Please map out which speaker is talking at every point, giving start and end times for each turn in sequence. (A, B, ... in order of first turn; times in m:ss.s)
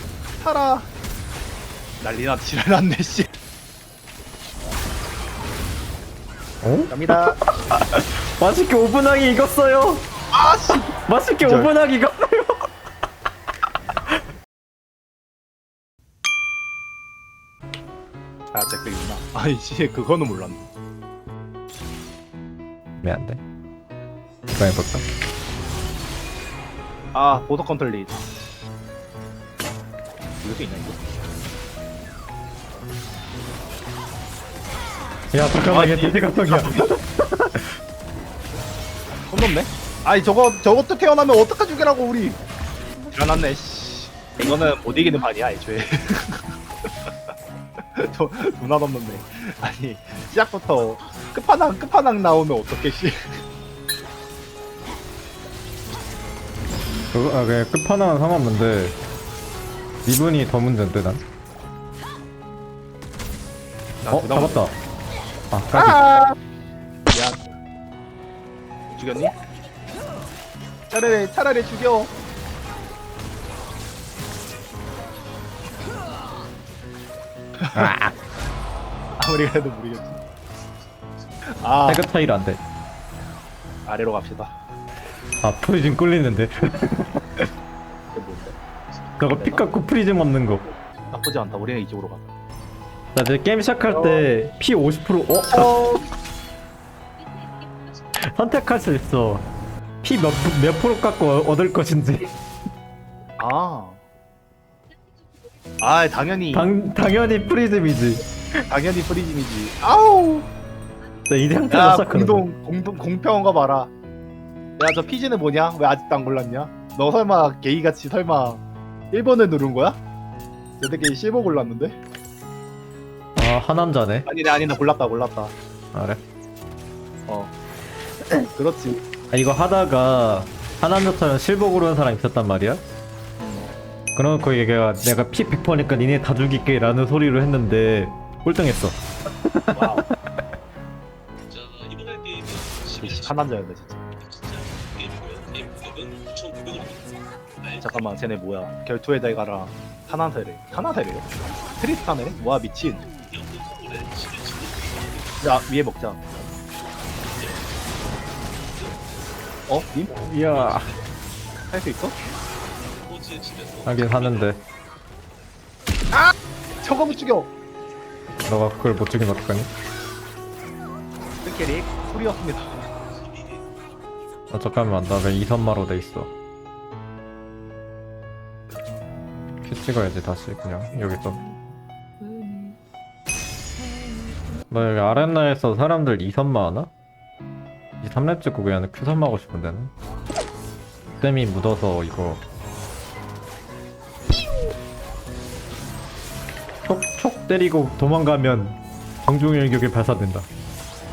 0:00.4-0:00.9 A
0:02.0-0:03.3 A
0:06.6-0:10.1 B
0:06.9-0:07.4 A
0:10.3-0:10.9 A
0:11.0-0:12.7 B
0:11.4-0:11.7 A
0:18.5-0:20.7 A
0:23.0-0:23.4 B
0:24.5-0:25.0 B
0:27.1-0:28.2 A
0:30.4-0:31.0 A
0:35.3-0:37.7 B
0:35.7-0:36.9 A
0:39.3-0:42.4 A
0:43.1-0:47.3 A
0:47.9-0:53.4 A
0:57.1-0:59.0 B
1:00.0-1:01.2 B
1:04.0-1:04.7 A
1:04.1-1:04.8 B
1:05.5-1:06.0 B
1:05.8-1:06.3 A
1:07.1-1:07.4 A
1:08.9-1:09.4 A
1:10.9-1:12.1 A
1:17.6-1:17.9 A
1:17.8-1:18.1 B
1:19.2-1:20.2 A
1:21.6-1:22.0 A
1:21.9-1:22.6 B
1:23.9-1:24.5 A
1:25.4-1:27.4 B
1:28.1-1:28.6 A
1:29.2-1:30.7 B
1:29.3-1:29.7 A
1:31.1-1:32.3 A
1:33.2-1:35.7 B
1:33.9-1:34.3 A
1:35.5-1:36.1 A
1:38.2-1:39.4 B
1:40.0-1:42.3 B
1:43.4-1:44.0 A
1:45.8-1:46.7 A
1:46.5-1:48.6 B
1:48.7-1:50.5 A
1:51.3-1:52.4 B
1:51.7-1:53.9 A
1:54.8-2:00.0 A
2:00.8-2:02.0 A
2:03.4-2:04.3 B
2:04.3-2:05.5 A
2:05.9-2:06.2 B
2:07.3-2:07.5 A
2:08.5-2:09.0 A
2:09.3-2:12.8 B
2:13.4-2:13.8 A
2:14.2-2:20.0 B
2:19.7-2:20.1 A
2:21.6-2:22.6 C
2:22.9-2:24.0 A
2:25.4-2:26.8 C
2:27.8-2:31.3 A
2:31.8-2:33.1 A
2:35.4-2:36.4 A
2:39.7-2:40.2 A
2:40.1-2:40.9 B
2:41.7-2:42.2 A
2:43.2-2:43.8 C
2:43.8-2:44.6 B
2:46.1-2:47.5 A
2:48.5-2:49.7 B
2:51.4-2:52.8 A
2:54.5-2:56.3 B
2:59.6-3:01.4 B
3:04.7-3:06.9 B
3:08.0-3:09.9 B
3:11.2-3:12.4 B
3:16.8-3:20.5 B